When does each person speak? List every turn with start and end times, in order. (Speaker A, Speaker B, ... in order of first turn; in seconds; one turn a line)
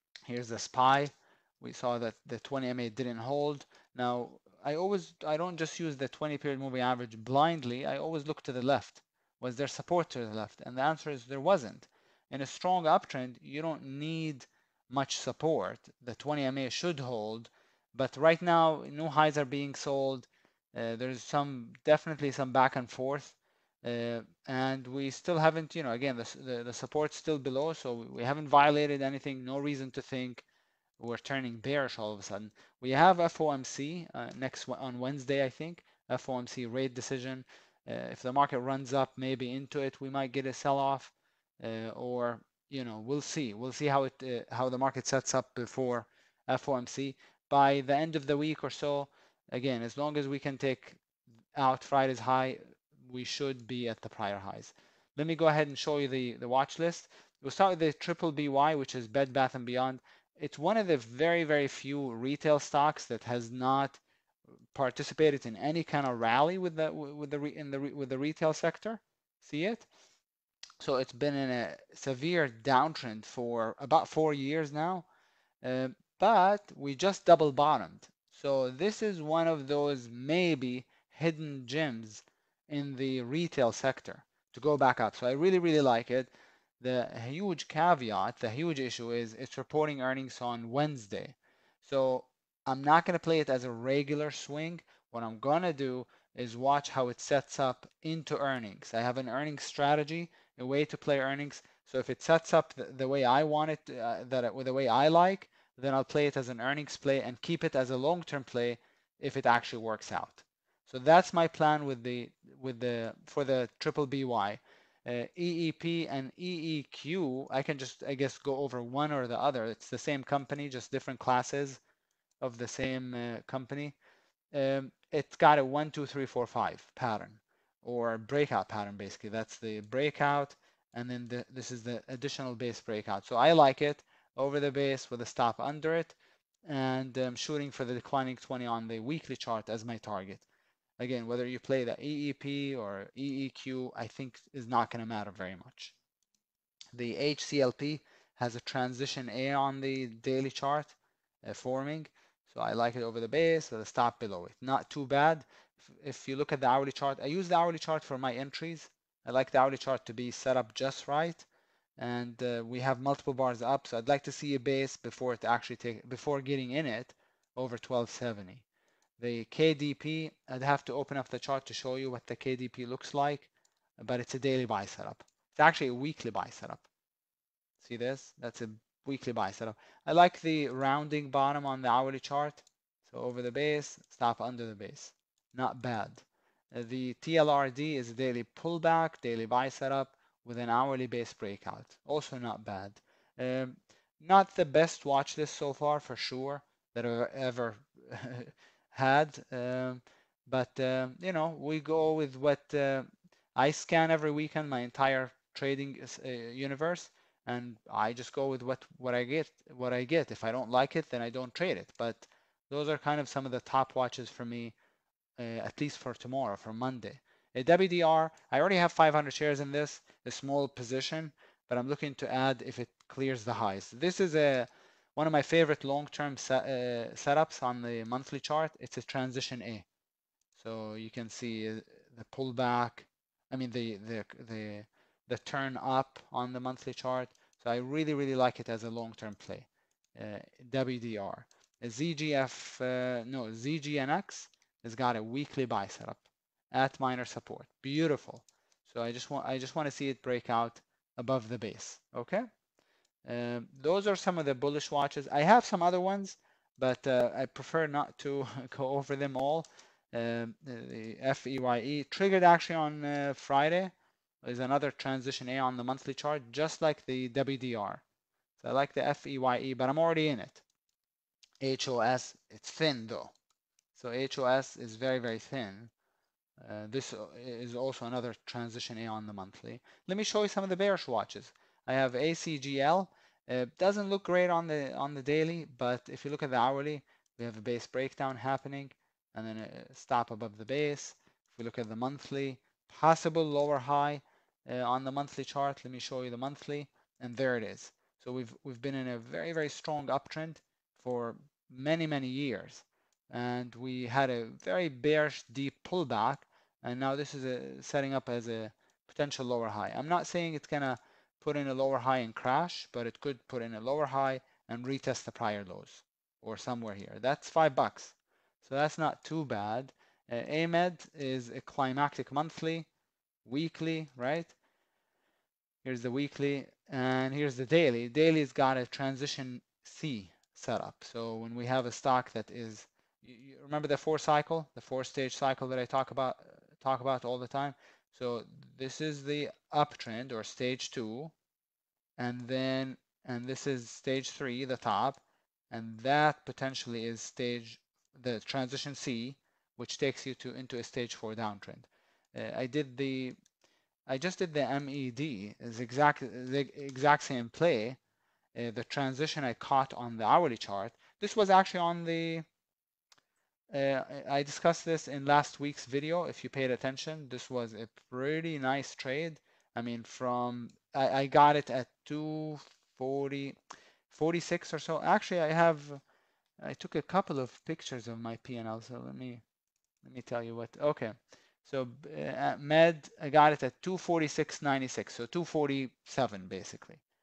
Speaker A: 0.3-30.4
Speaker A: 31.0-51.0
Speaker A: 51.5-64.0
Speaker A: 64.7-69.9
Speaker A: 70.8-75.1
Speaker A: 75.6-121.8
Speaker A: 122.4-124.0
Speaker A: 124.5-140.4
Speaker A: 141.0-145.9
Speaker A: 146.9-168.6
Speaker A: 169.2-176.9
Speaker A: 177.8-214.7
Speaker A: 215.4-229.8
Speaker A: 230.6-252.4
Speaker A: 253.2-268.0
Speaker A: 268.6-270.6
Speaker A: 271.6-273.3
Speaker A: 273.9-275.9
Speaker A: 276.6-322.9
Speaker A: 323.4-324.5
Speaker A: 325.8-341.3
Speaker A: 342.2-353.4
Speaker A: 354.1-358.0
Speaker A: 358.5-362.4
Speaker A: 363.7-373.6
Speaker A: 374.1-376.0
Speaker A: 376.6-379.4
Speaker A: 380.0-381.1
Speaker A: 381.6-387.0